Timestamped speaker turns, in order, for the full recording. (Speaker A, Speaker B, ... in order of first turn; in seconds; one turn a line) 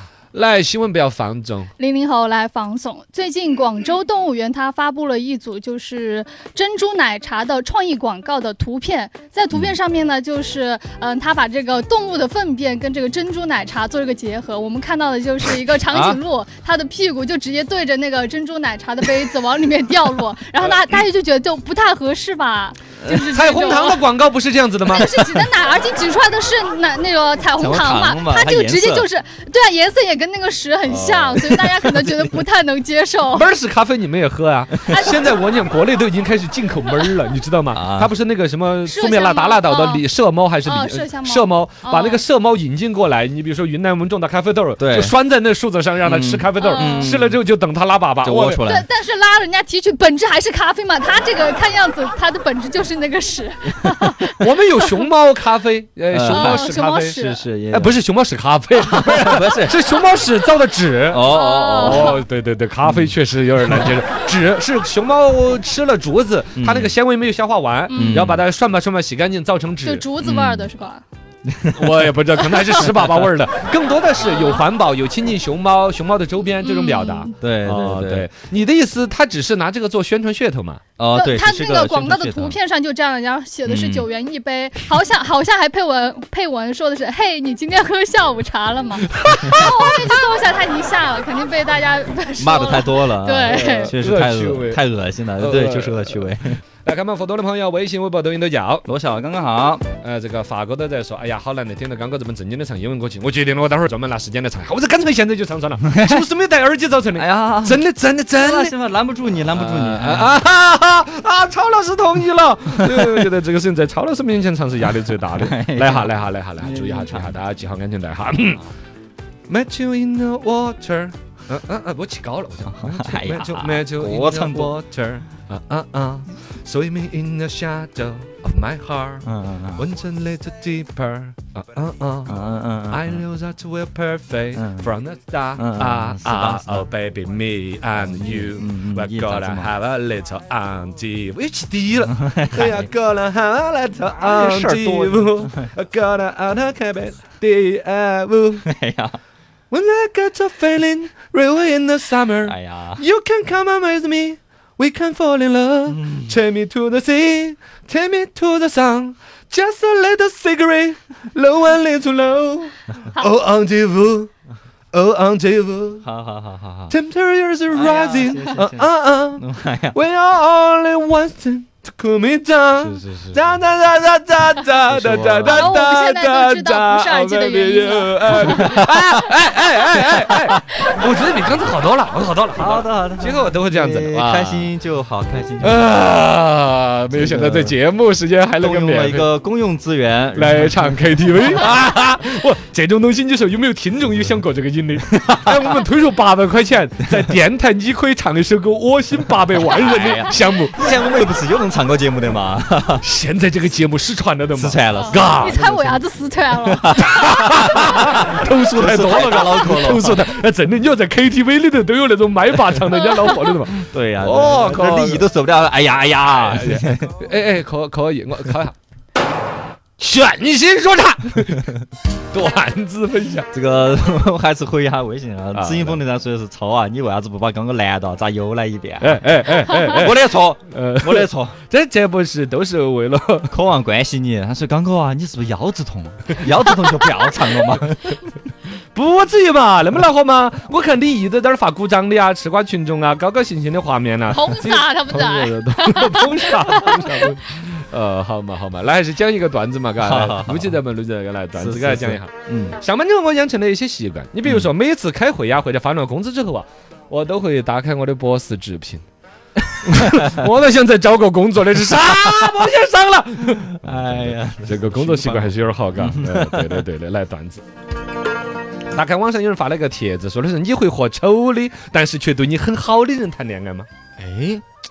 Speaker A: 0.3-1.7
Speaker B: 1.8-24.1
Speaker C: 15.9-16.2
Speaker A: 20.6-21.0
Speaker A: 23.1-25.5
Speaker B: 24.9-33.5
Speaker C: 27.6-29.1
Speaker C: 30.9-31.9
Speaker A: 33.3-48.6
Speaker B: 34.9-35.3
Speaker C: 37.7-38.1
Speaker B: 38.9-40.1
Speaker B: 40.6-42.2
Speaker C: 44.8-45.1
Speaker C: 46.0-47.4
Speaker B: 46.6-47.1
Speaker C: 48.2-48.9
Speaker B: 48.6-54.5
Speaker A: 54.4-70.1
Speaker C: 56.1-58.0
Speaker B: 56.3-57.4
Speaker C: 58.8-59.8
Speaker C: 61.1-62.1
Speaker B: 61.3-62.2
Speaker C: 62.9-63.1
Speaker C: 66.5-66.9
Speaker B: 67.9-68.2
Speaker C: 68.0-68.4
Speaker B: 69.8-71.0
Speaker C: 70.2-70.7
Speaker C: 71.5-72.0
Speaker A: 71.8-80.8
Speaker C: 72.7-73.0
Speaker B: 74.3-74.6
Speaker B: 76.6-77.3
Speaker C: 77.4-78.3
Speaker C: 81.0-82.6
Speaker B: 81.1-94.0
Speaker C: 83.7-84.1
Speaker A: 89.1-90.0
Speaker C: 92.4-96.6
Speaker A: 93.5-94.8
Speaker A: 95.4-98.9
Speaker C: 98.9-99.8
Speaker A: 100.0-108.8
Speaker C: 105.9-106.2
Speaker C: 107.2-110.3
Speaker A: 109.5-118.6
Speaker C: 112.8-113.3
Speaker C: 114.9-117.4
Speaker A: 119.5-132.3
Speaker C: 122.7-124.8
Speaker C: 129.2-129.8
Speaker C: 132.3-133.2
Speaker A: 132.9-148.7
Speaker C: 134.6-134.9
Speaker C: 135.6-136.9
Speaker C: 137.9-139.7
Speaker C: 142.2-142.9
Speaker C: 144.2-145.7
Speaker C: 148.7-149.2
Speaker A: 149.7-164.3
Speaker C: 152.4-153.0
Speaker C: 155.9-156.3
Speaker A: 164.9-166.1
Speaker C: 166.0-166.9
Speaker A: 166.9-184.7
Speaker C: 167.7-170.0
Speaker C: 172.8-173.6
Speaker C: 174.9-175.7
Speaker B: 175.4-178.8
Speaker C: 178.4-179.2
Speaker C: 180.0-180.5
Speaker C: 182.6-185.9
Speaker A: 185.6-189.3
Speaker C: 187.1-187.8
Speaker C: 188.6-191.6
Speaker A: 190.3-200.8
Speaker C: 199.6-203.0
Speaker A: 203.0-205.9
Speaker C: 204.6-205.9
Speaker B: 204.9-207.4
Speaker C: 206.7-210.3
Speaker A: 207.1-215.3
Speaker B: 213.1-213.5
Speaker C: 213.7-217.1
Speaker A: 216.5-218.8
Speaker A: 220.0-221.8
Speaker A: 222.3-223.5
Speaker C: 223.5-231.6
Speaker A: 225.5-226.0
Speaker A: 229.0-233.5
Speaker C: 233.5-238.2
Speaker A: 238.9-259.0
Speaker B: 244.3-247.2
Speaker C: 250.0-250.8
Speaker C: 251.5-252.8
Speaker A: 259.8-267.6
Speaker C: 262.0-262.5
Speaker C: 263.7-266.8
Speaker A: 268.9-273.9
Speaker C: 274.2-274.6